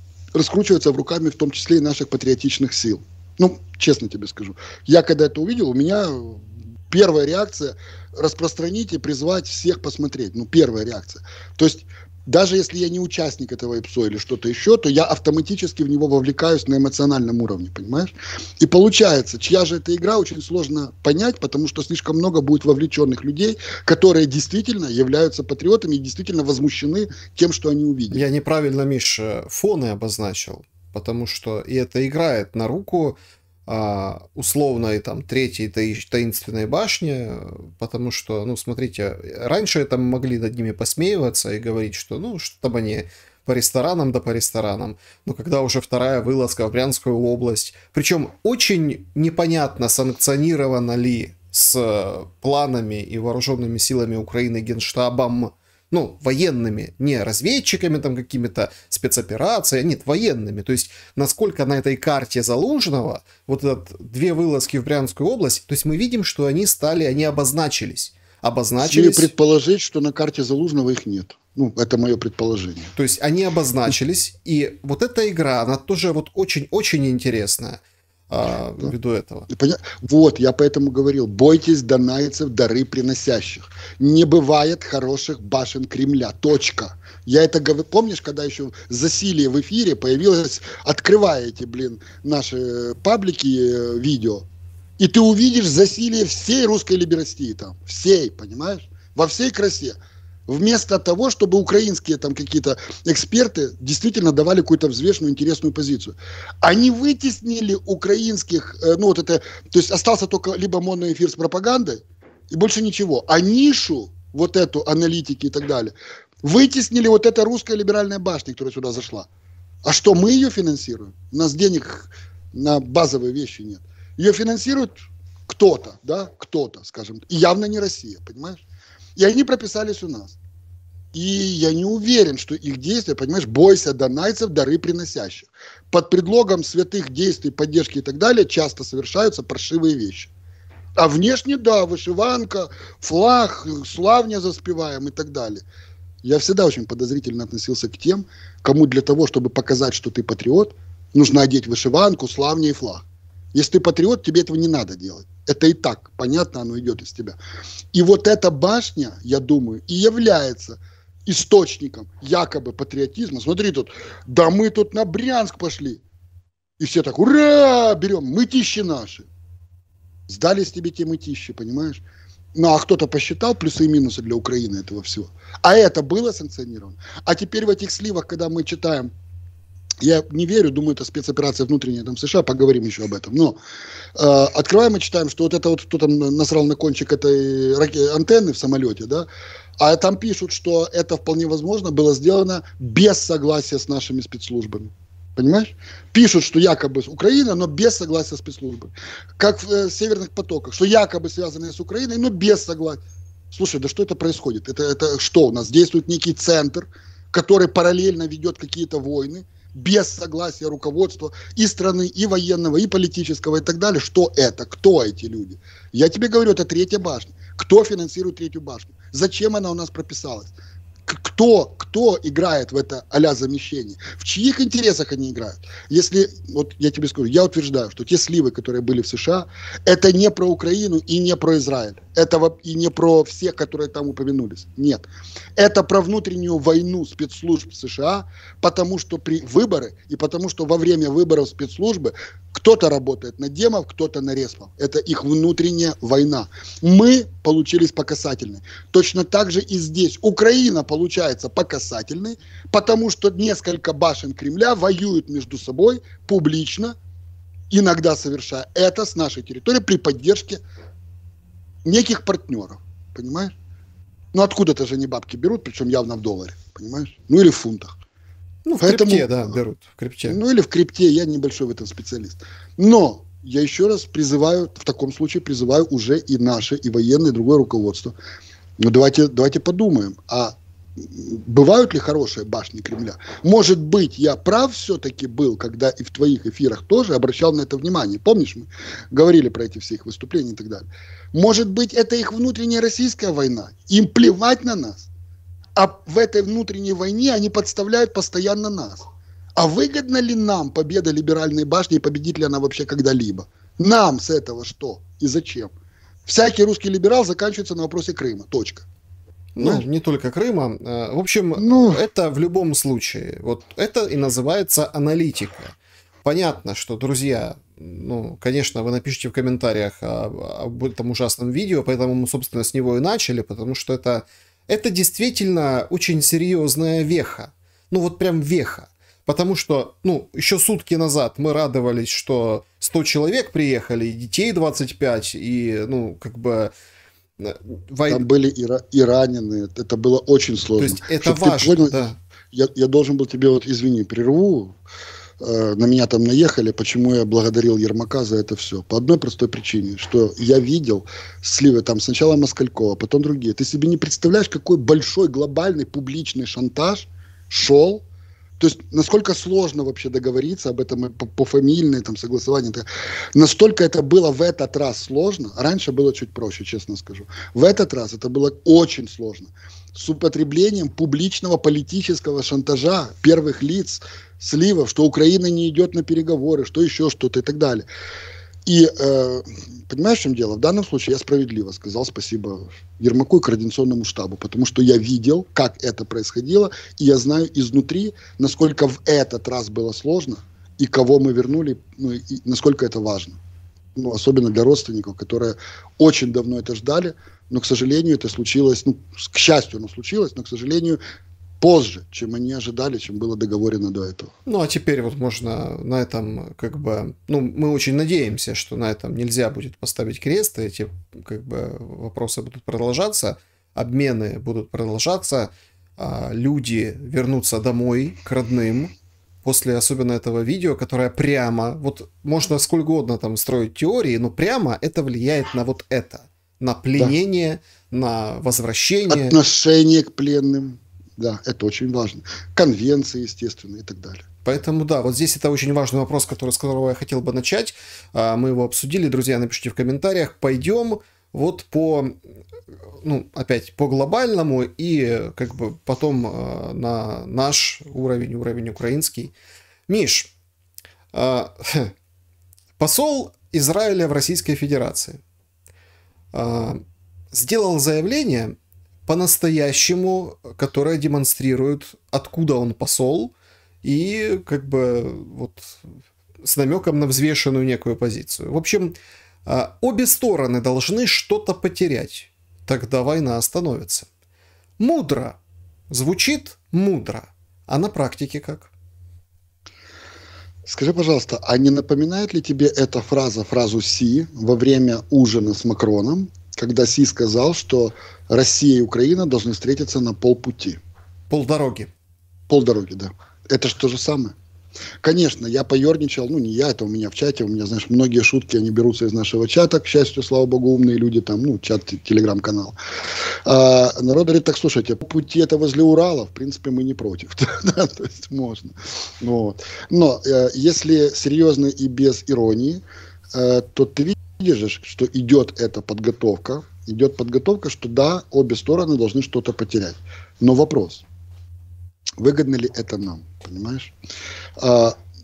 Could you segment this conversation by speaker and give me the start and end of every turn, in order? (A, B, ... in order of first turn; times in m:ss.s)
0:00.4-0:28.2 A
0:28.1-0:33.2 B
0:33.7-1:09.3 B
1:08.8-1:12.9 A
1:13.0-1:19.5 B
1:19.5-1:34.4 A
1:35.0-1:40.0 A
1:40.5-1:59.3 A
1:59.8-2:04.9 A
2:05.5-2:08.6 A
2:09.2-2:10.4 A
2:11.1-2:20.3 A
2:21.0-2:25.6 A
2:26.2-2:37.4 A
2:37.9-2:46.0 A
2:46.8-2:49.3 A
2:50.3-2:52.0 A
2:52.6-2:59.1 A
3:00.0-3:03.6 A
3:04.2-3:09.3 A
3:09.8-3:23.0 A
3:23.5-3:40.5 A
3:41.1-3:55.0 A
3:55.6-4:17.0 A
4:17.7-4:20.6 A
4:21.8-4:23.6 A
4:24.3-4:27.9 A
4:28.6-4:30.4 B
4:28.8-4:29.4 A
4:30.3-4:38.2 A
4:38.8-4:55.1 A
4:55.8-5:05.7 A
5:06.3-5:08.9 A
5:09.6-5:36.7 B
5:09.6-5:09.8 A
5:11.6-5:12.0 A
5:37.4-5:38.2 B
5:38.1-5:44.8 A
5:40.8-5:42.2 B
5:45.4-5:58.0 A
5:58.6-6:17.9 A
6:18.6-6:33.4 A
6:34.0-6:41.0 A
6:41.6-6:44.3 A
6:44.5-6:58.9 B
6:59.4-7:09.4 B
7:09.1-7:14.3 A
7:14.4-7:22.1 B
7:23.0-7:29.3 B
7:29.9-7:30.3 B
7:31.1-7:31.9 B
7:32.8-7:35.2 B
7:36.3-7:43.3 B
7:43.8-7:45.9 B
7:46.4-7:49.0 B
7:49.5-7:54.1 B
7:54.8-7:55.4 B
7:55.9-7:58.7 B
8:00.7-8:10.8 A
8:11.3-8:11.9 B
8:12.5-8:14.4 A
8:15.0-8:22.8 A
8:23.4-8:32.8 A
8:33.3-8:41.0 A
8:42.2-8:43.9 A
8:44.6-8:45.0 A